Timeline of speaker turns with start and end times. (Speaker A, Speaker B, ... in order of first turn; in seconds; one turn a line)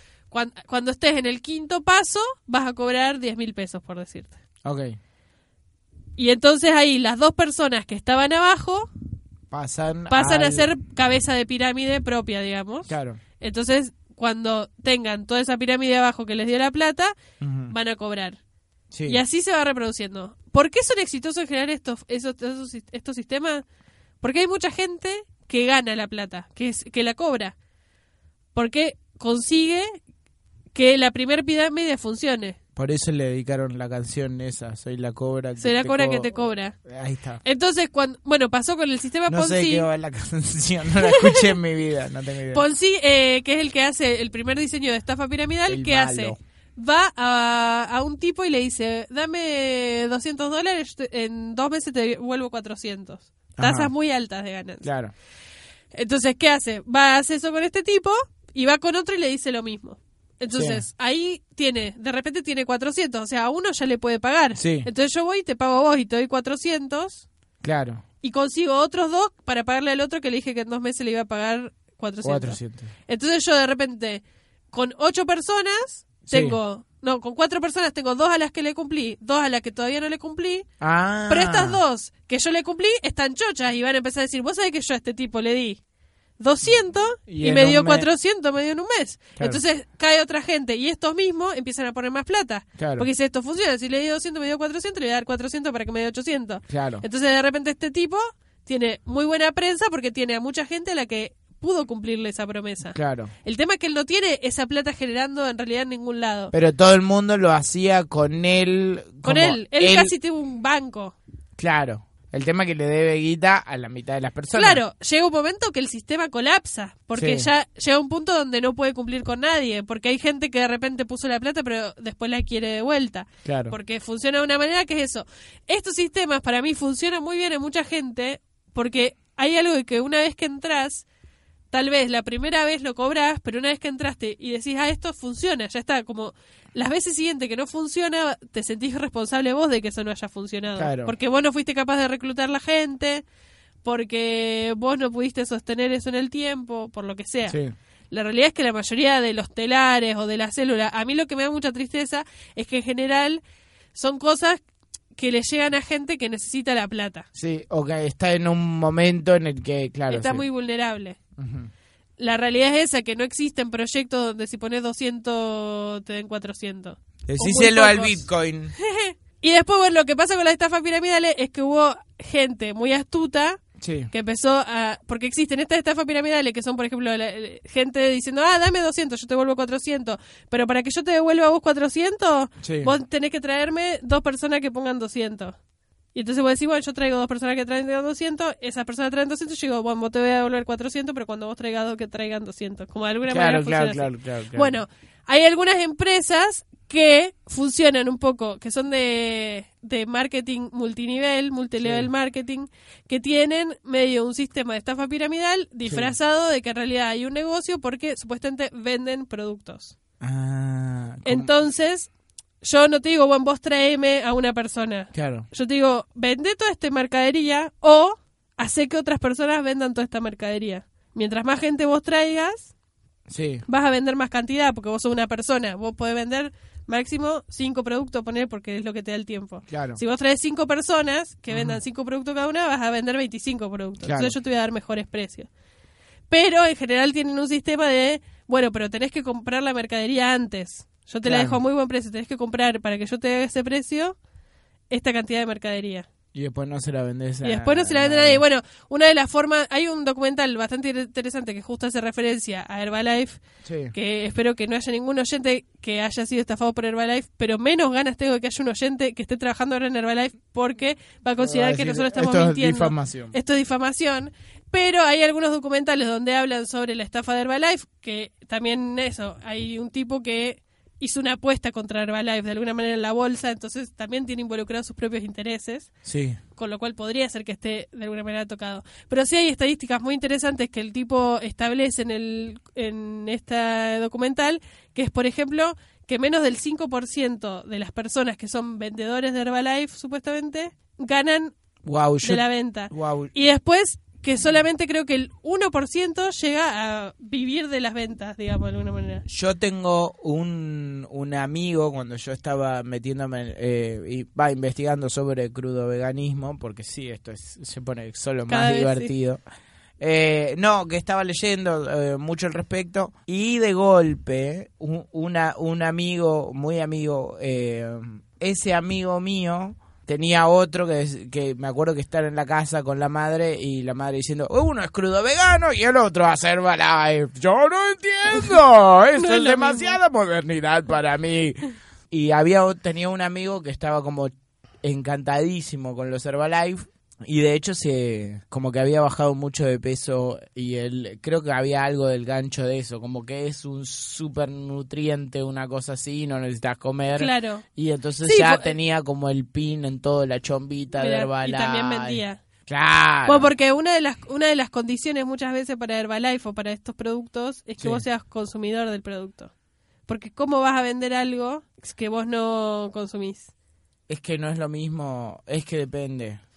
Speaker A: 0.3-4.3
Speaker B: 4.6-5.0
Speaker A: 6.2-8.9
Speaker B: 9.5-10.7
Speaker A: 10.1-18.4
Speaker B: 12.9-13.2
Speaker B: 17.4-17.7
Speaker B: 18.9-19.2
Speaker A: 19.1-23.6
Speaker A: 24.2-27.5
Speaker A: 28.5-29.9
Speaker A: 30.7-32.6
Speaker B: 32.8-36.3
Speaker A: 35.6-36.8
Speaker B: 36.8-37.4
Speaker A: 37.4-39.9
Speaker B: 39.3-42.6
Speaker A: 41.0-41.5
Speaker A: 42.5-54.9
Speaker B: 45.7-46.4
Speaker B: 53.6-53.9
Speaker B: 54.8-55.1
Speaker A: 55.9-67.2
Speaker B: 60.5-60.8
Speaker B: 64.5-64.9
Speaker B: 67.6-68.0
Speaker A: 68.2-80.7
Speaker B: 72.2-72.9
Speaker B: 76.3-76.6
Speaker B: 80.8-81.8
Speaker A: 81.3-85.8
Speaker A: 86.4-106.5
Speaker B: 87.3-88.1
Speaker B: 92.8-93.1
Speaker B: 96.7-97.0
Speaker B: 102.9-103.3
Speaker B: 106.5-110.1
Speaker A: 109.2-111.2
Speaker B: 111.6-114.8
Speaker A: 114.5-131.0
Speaker B: 117.1-117.5
Speaker B: 123.4-123.8
Speaker A: 131.7-143.2
Speaker B: 140.8-141.1
Speaker A: 143.8-147.6
Speaker B: 147.5-147.7
Speaker A: 148.1-153.4
Speaker A: 153.9-154.6
Speaker A: 155.2-157.2
Speaker B: 157.3-160.4
Speaker A: 160.1-161.2
Speaker B: 161.4-161.7
Speaker A: 162.2-168.2
Speaker B: 167.3-168.7
Speaker A: 168.8-185.6
Speaker B: 173.8-174.1
Speaker B: 182.6-182.9
Speaker A: 186.1-209.9
Speaker B: 193.3-194.7
Speaker B: 201.8-202.1
Speaker B: 205.8-206.1
Speaker B: 210.2-211.5
Speaker A: 211.2-212.1
Speaker A: 212.6-222.7
Speaker B: 215.1-215.5
Speaker B: 223.3-223.7
Speaker A: 223.7-235.5
Speaker B: 229.7-230.0
Speaker B: 231.5-231.8
Speaker B: 234.0-234.3
Speaker A: 236.3-244.2
Speaker B: 241.2-241.6
Speaker A: 244.9-246.1
Speaker B: 246.3-248.4
Speaker A: 247.4-253.4
Speaker B: 253.6-253.9
Speaker A: 253.9-275.9
Speaker B: 261.4-263.4
Speaker B: 276.0-276.4
Speaker A: 276.6-291.5
Speaker B: 291.8-293.3
Speaker A: 292.2-299.2
Speaker B: 299.2-309.4
Speaker A: 308.5-309.1
Speaker B: 310.0-331.6
Speaker A: 329.1-330.0
Speaker B: 332.1-353.5
Speaker A: 347.1-347.6
Speaker A: 348.2-348.7
Speaker A: 351.0-352.4
Speaker A: 353.2-359.5
Speaker B: 357.8-358.0
Speaker A: 360.1-363.5
Speaker B: 364.1-366.4